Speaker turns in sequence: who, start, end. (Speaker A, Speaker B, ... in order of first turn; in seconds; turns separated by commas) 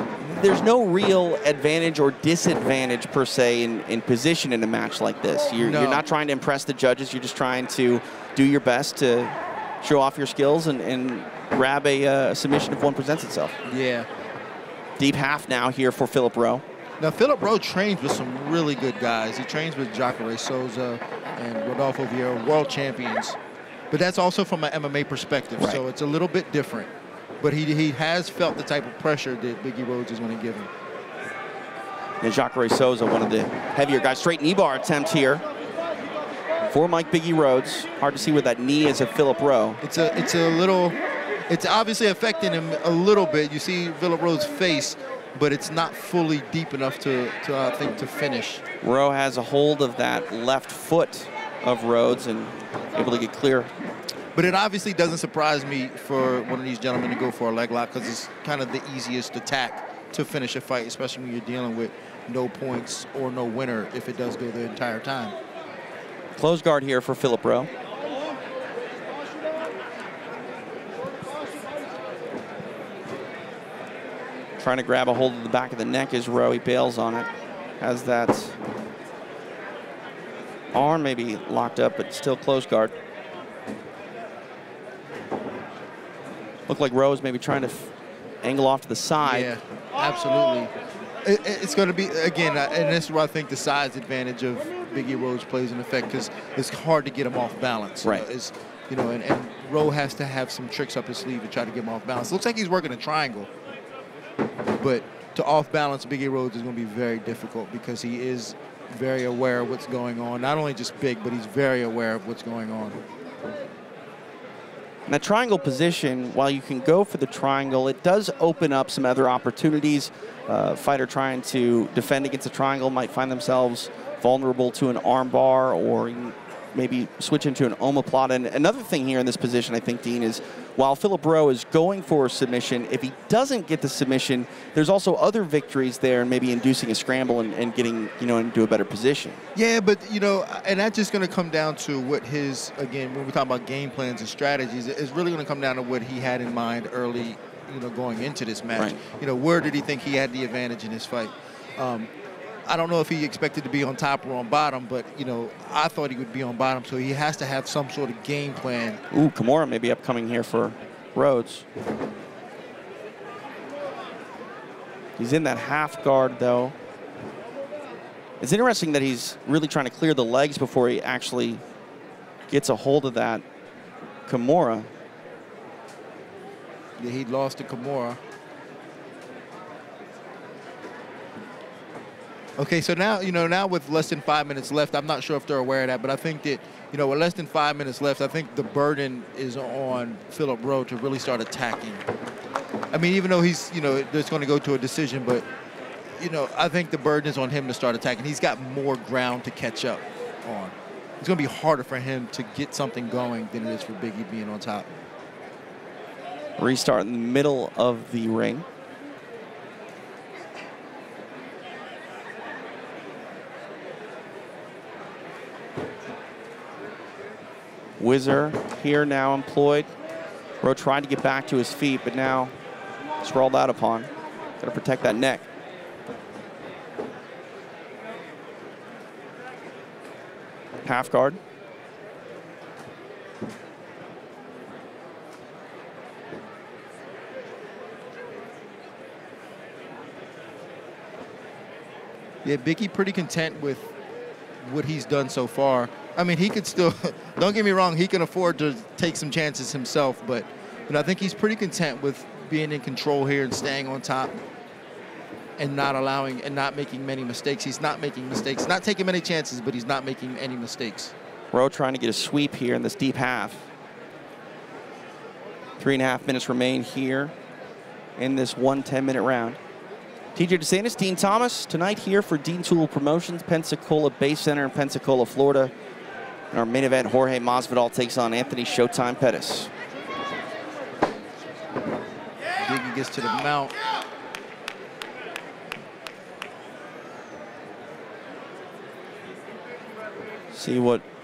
Speaker A: 0.2-13.6, Speaker B: 5.6-6.1, Speaker B: 13.7-14.1, Speaker A: 15.0-16.6, Speaker B: 17.0-23.4, Speaker B: 23.9-26.9, Speaker A: 25.6-25.8, Speaker B: 27.4-30.7, Speaker A: 32.2-35.4, Speaker A: 36.6-39.8, Speaker B: 39.8-41.0, Speaker B: 41.5-48.6, Speaker A: 48.8-53.7, Speaker B: 54.4-65.3, Speaker A: 66.4-67.7, Speaker A: 74.6-77.3, Speaker A: 77.8-78.6, Speaker A: 80.7-82.9, Speaker A: 86.7-87.9, Speaker A: 88.4-89.5, Speaker B: 89.2-90.7, Speaker B: 91.2-103.5, Speaker B: 104.8-113.0, Speaker A: 115.1-139.4, Speaker B: 139.6-152.1, Speaker B: 152.7-159.0, Speaker A: 159.1-161.7, Speaker A: 165.2-166.8, Speaker A: 168.4-171.6, Speaker A: 172.5-173.4, Speaker A: 174.3-174.9, Speaker B: 177.0-178.2, Speaker B: 182.6-192.0, Speaker B: 192.9-195.4, Speaker B: 196.2-204.9, Speaker A: 206.6-208.7, Speaker A: 218.0-219.9, Speaker A: 220.6-222.5, Speaker A: 223.2-225.4, Speaker A: 230.8-231.4, Speaker B: 242.4-243.9, Speaker B: 244.6-254.3, Speaker B: 255.6-261.1, Speaker A: 261.5-263.7, Speaker A: 265.8-267.3, Speaker A: 268.2-269.6, Speaker A: 270.4-275.7, Speaker A: 276.5-279.7, Speaker B: 282.6-283.8, Speaker A: 290.5-291.0